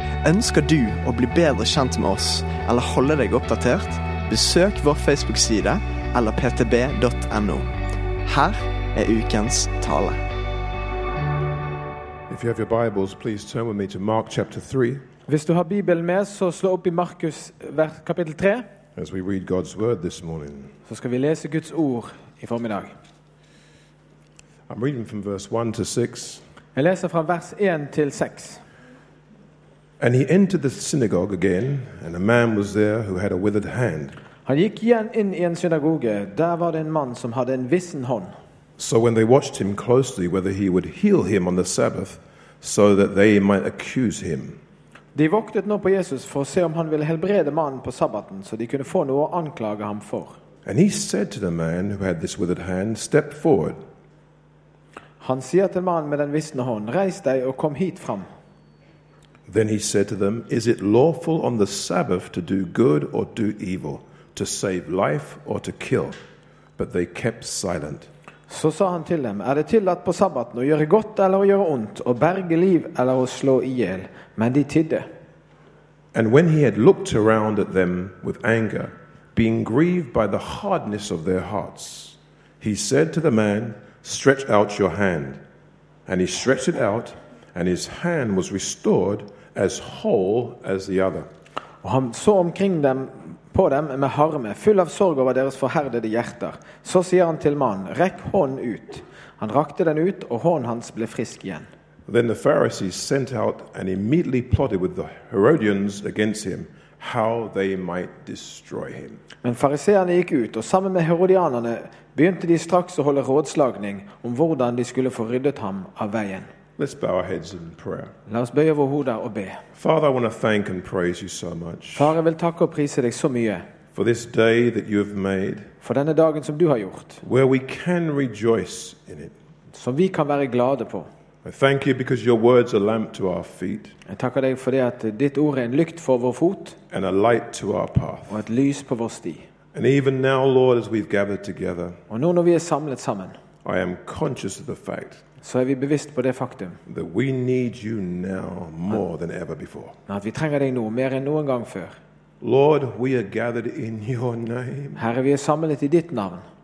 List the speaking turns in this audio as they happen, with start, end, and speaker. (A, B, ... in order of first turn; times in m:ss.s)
0:00.2-0:07.7 A
0:08.3-0:10.2 A
0:12.3-0:15.0 B
0:15.3-0:18.7 C
0:19.0-0:20.7 B
0:20.9-0:22.9 C
0:24.7-0:26.4 B
0:26.8-0:28.6 C
0:30.0-0:34.2 B
0:34.5-0:38.3 C
0:38.8-0:44.6 B
0:45.2-0:50.4 C
0:50.6-0:53.8 B
0:55.2-0:58.3 C
0:59.5-1:06.2 B
1:06.8-1:08.1 B
1:08.5-1:15.1 C
1:16.1-1:25.4 B
1:26.1-1:31.3 B
1:31.8-1:41.7 C
1:42.1-1:49.2 B
1:49.4-1:56.5 C
1:56.8-1:58.1 B
1:58.3-1:59.6 C
1:59.8-2:02.2 B
2:02.0-2:03.6 C
2:03.9-2:05.7 B
2:05.8-2:07.2 C
2:07.2-2:09.3 B
2:09.7-2:11.1 C
2:11.4-2:14.0 B
2:14.1-2:16.8 C
2:16.9-2:18.4 B
2:18.3-2:19.5 C
2:19.7-2:22.0 B
2:22.1-2:23.4 C
2:23.6-2:25.2 B
2:25.4-2:26.8 C
2:26.9-2:30.0 B
2:30.1-2:32.0 C
2:32.4-2:35.0 B
2:35.0-2:36.4 C